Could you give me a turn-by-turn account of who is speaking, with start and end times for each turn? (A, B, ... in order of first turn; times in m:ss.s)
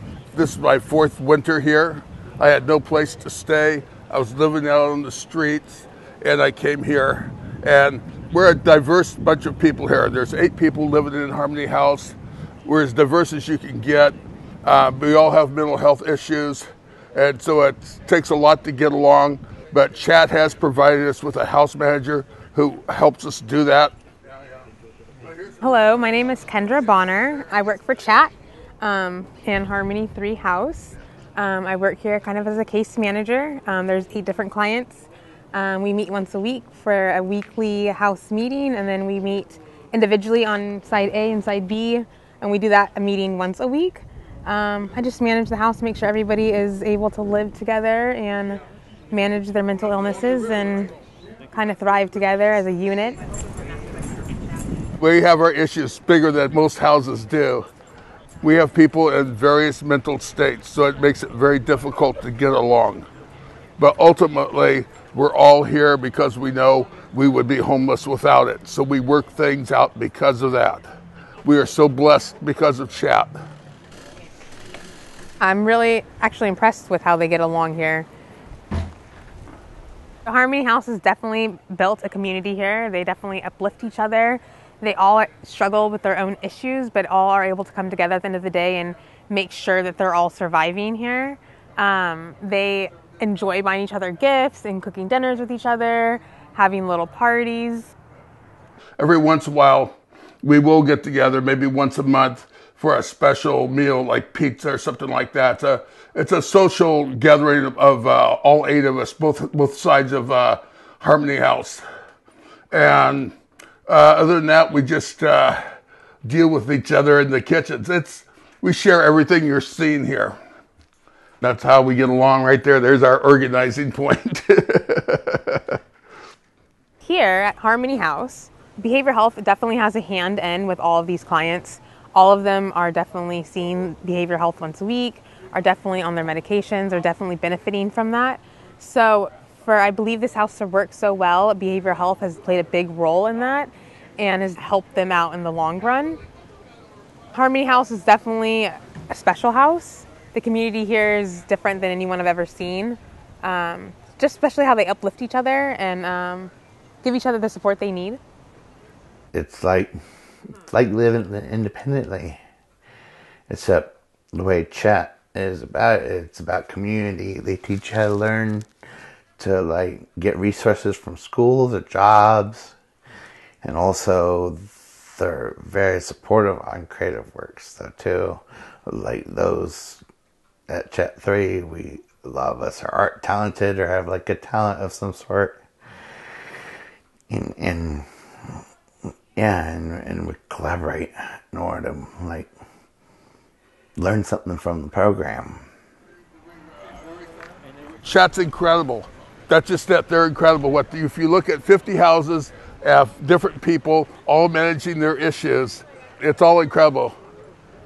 0:00.3-0:23.9 A
0:25.6-0:50.9 B
0:51.5-0:53.2 B
0:55.0-0:57.7 A
0:58.4-1:03.1 A
1:03.8-1:10.9 A
1:11.4-1:13.4 A
1:15.4-1:18.1 B
1:20.3-1:37.9 B
1:39.0-1:51.8 A
1:52.7-1:53.3 A
1:53.9-1:55.6 A
1:56.2-2:00.4 A
2:01.4-2:05.8 A
2:07.0-2:26.2 B
2:27.3-2:36.5 B
2:37.0-2:38.2 B
2:39.3-2:40.0 C
2:40.7-2:42.4 C
2:43.5-2:48.7 C
2:49.4-2:52.8 C
2:53.6-3:00.0 C
3:00.7-3:05.6 C
3:07.3-3:08.1 C
3:09.4-3:12.5 C
3:14.0-3:15.6 C
3:18.0-3:27.2 A